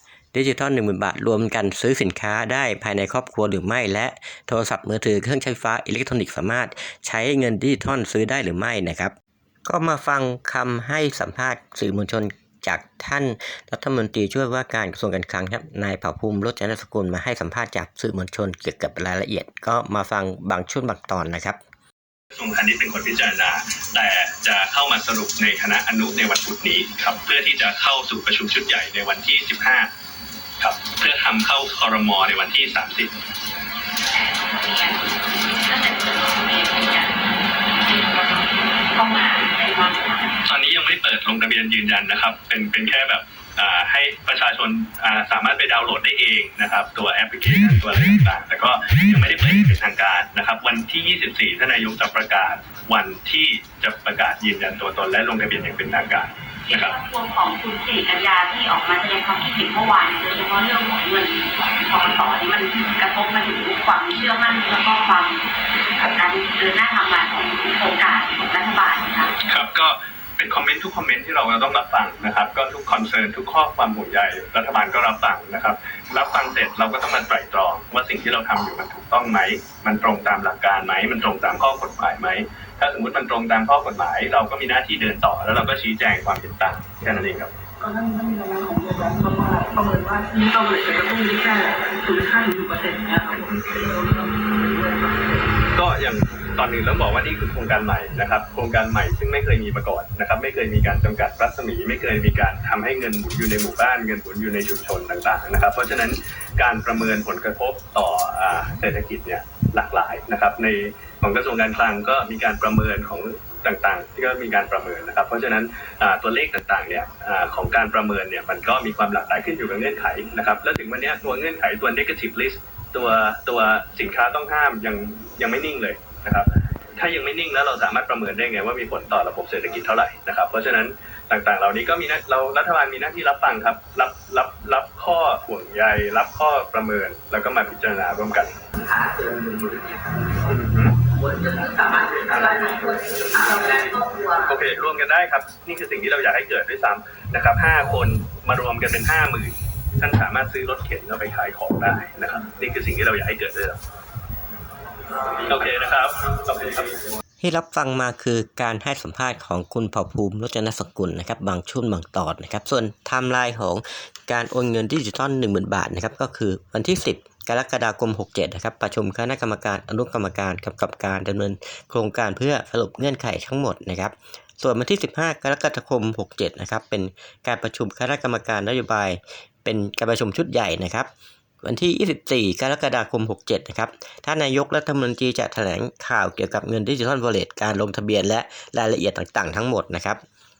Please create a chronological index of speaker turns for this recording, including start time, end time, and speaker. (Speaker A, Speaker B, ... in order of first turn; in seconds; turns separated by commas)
Speaker A: 0.3-9.1, Speaker A: 9.7-21.6, Speaker B: 22.3-29.9, Speaker B: 30.6-33.1, Speaker C: 34.2-40.4, Speaker B: 40.4-57.0, Speaker C: 56.7-65.5, Speaker B: 62.0-62.3, Speaker C: 66.0-69.3, Speaker B: 69.4-87.5, Speaker D: 87.8-95.4, Speaker B: 93.3-93.8, Speaker B: 95.7-138.6, Speaker D: 138.8-140.5, Speaker B: 140.5-141.0, Speaker D: 141.1-144.5, Speaker B: 144.4-153.8, Speaker B: 155.3-157.0, Speaker A: 157.4-181.1, Speaker A: 181.6-190.2